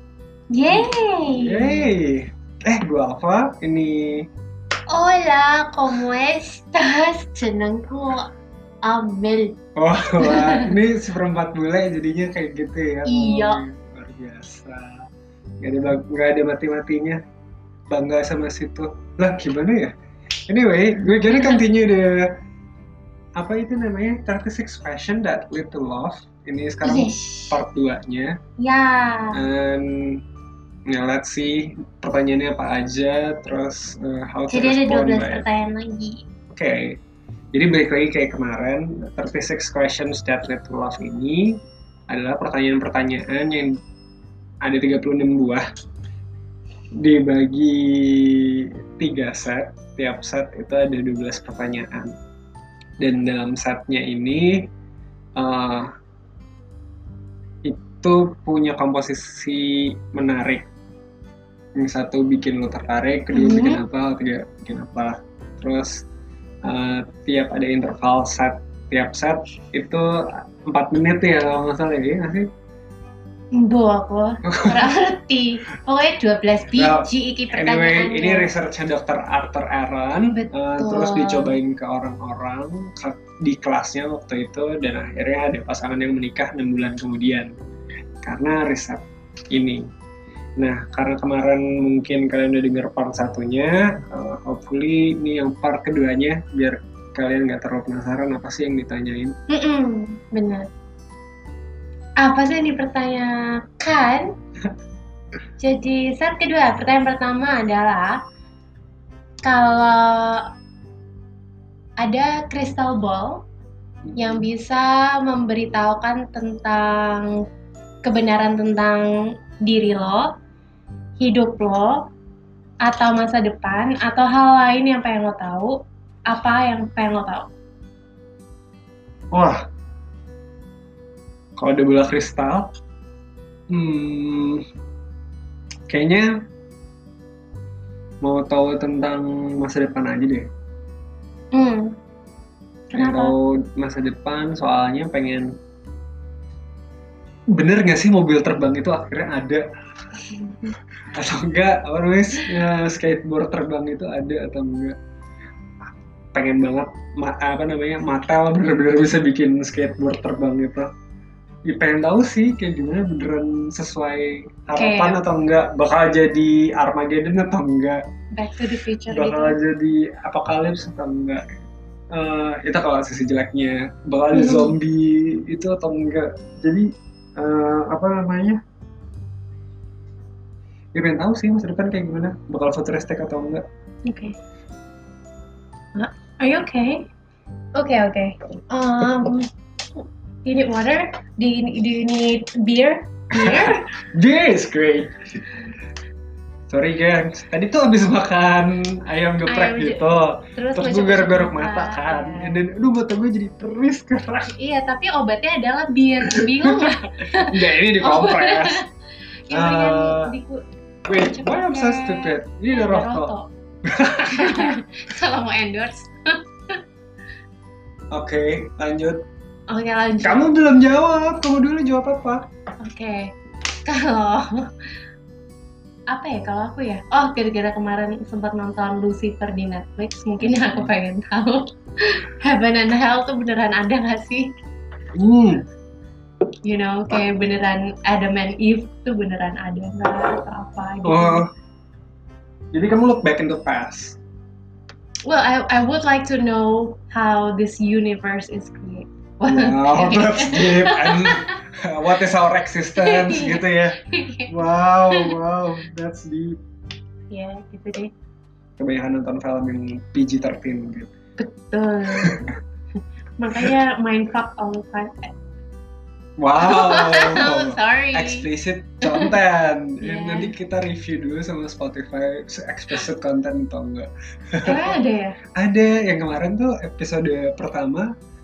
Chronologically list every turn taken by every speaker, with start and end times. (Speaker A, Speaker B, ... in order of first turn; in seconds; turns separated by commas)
Speaker A: 0.5-1.9, Speaker B: 0.7-4.3, Speaker A: 4.9-8.3, Speaker A: 8.8-9.6, Speaker B: 9.8-15.1, Speaker A: 10.2-10.7, Speaker A: 13.1-13.6, Speaker B: 15.6-17.2, Speaker B: 17.9-19.9, Speaker B: 20.5-22.4, Speaker A: 21.3-21.6, Speaker B: 23.4-28.4, Speaker A: 26.8-27.6, Speaker A: 28.6-29.4, Speaker B: 29.3-30.2, Speaker B: 30.9-35.4, Speaker A: 34.5-36.2, Speaker B: 36.5-37.0, Speaker B: 37.5-41.6, Speaker B: 42.1-43.8, Speaker B: 44.6-45.6, Speaker B: 47.0-52.1, Speaker B: 53.0-54.7, Speaker B: 55.4-55.9, Speaker B: 57.6-60.6, Speaker B: 61.8-66.0, Speaker A: 63.3-63.8, Speaker B: 66.6-72.5, Speaker A: 73.5-78.5, Speaker B: 74.5-75.0, Speaker B: 76.7-87.6, Speaker A: 80.3-81.6, Speaker B: 88.2-89.9, Speaker B: 90.6-99.4, Speaker A: 99.5-100.7, Speaker A: 102.2-104.3, Speaker A: 105.6-108.2, Speaker A: 109.4-110.5, Speaker A: 112.0-113.4, Speaker B: 114.0-114.5, Speaker A: 114.2-117.4, Speaker A: 118.0-120.3, Speaker A: 121.2-122.1, Speaker A: 122.8-125.8, Speaker A: 126.3-127.5, Speaker B: 129.3-129.6, Speaker B: 131.6-132.7, Speaker B: 133.7-134.7, Speaker B: 135.9-136.3, Speaker B: 138.2-140.5, Speaker A: 141.5-141.9, Speaker A: 142.9-143.3, Speaker B: 142.9-145.5, Speaker B: 147.5-149.7, Speaker B: 150.7-155.0, Speaker B: 155.8-160.9, Speaker B: 161.7-168.0, Speaker A: 164.7-165.2, Speaker A: 168.3-169.6, Speaker B: 169.1-171.6, Speaker B: 172.1-178.6, Speaker A: 174.3-174.8, Speaker B: 180.9-183.6, Speaker A: 184.1-184.4, Speaker A: 185.9-187.1, Speaker A: 187.8-189.5, Speaker A: 190.4-193.9, Speaker B: 193.3-195.4, Speaker B: 196.7-204.5, Speaker A: 199.5-200.1, Speaker A: 200.6-202.6, Speaker A: 204.6-208.9, Speaker B: 206.2-208.8, Speaker A: 209.5-210.6, Speaker B: 209.5-210.3, Speaker B: 211.1-213.3, Speaker A: 211.2-213.5, Speaker B: 213.8-214.8, Speaker A: 214.2-216.8, Speaker B: 218.1-219.2, Speaker A: 219.7-220.5, Speaker B: 220.2-222.5, Speaker A: 222.8-223.3, Speaker A: 223.8-224.7, Speaker A: 226.1-234.5, Speaker B: 230.4-230.9, Speaker B: 235.2-235.7, Speaker A: 236.6-241.4, Speaker B: 241.1-241.5, Speaker B: 242.7-244.2, Speaker A: 245.2-251.6, Speaker B: 249.5-256.6, Speaker A: 253.0-254.5, Speaker A: 257.3-258.1, Speaker B: 258.8-261.1, Speaker A: 261.4-262.4, Speaker B: 262.2-262.6, Speaker A: 263.4-265.3, Speaker B: 266.4-275.0, Speaker A: 266.6-268.4, Speaker A: 269.0-269.4, Speaker A: 270.0-270.5, Speaker A: 274.6-275.4, Speaker B: 275.6-278.1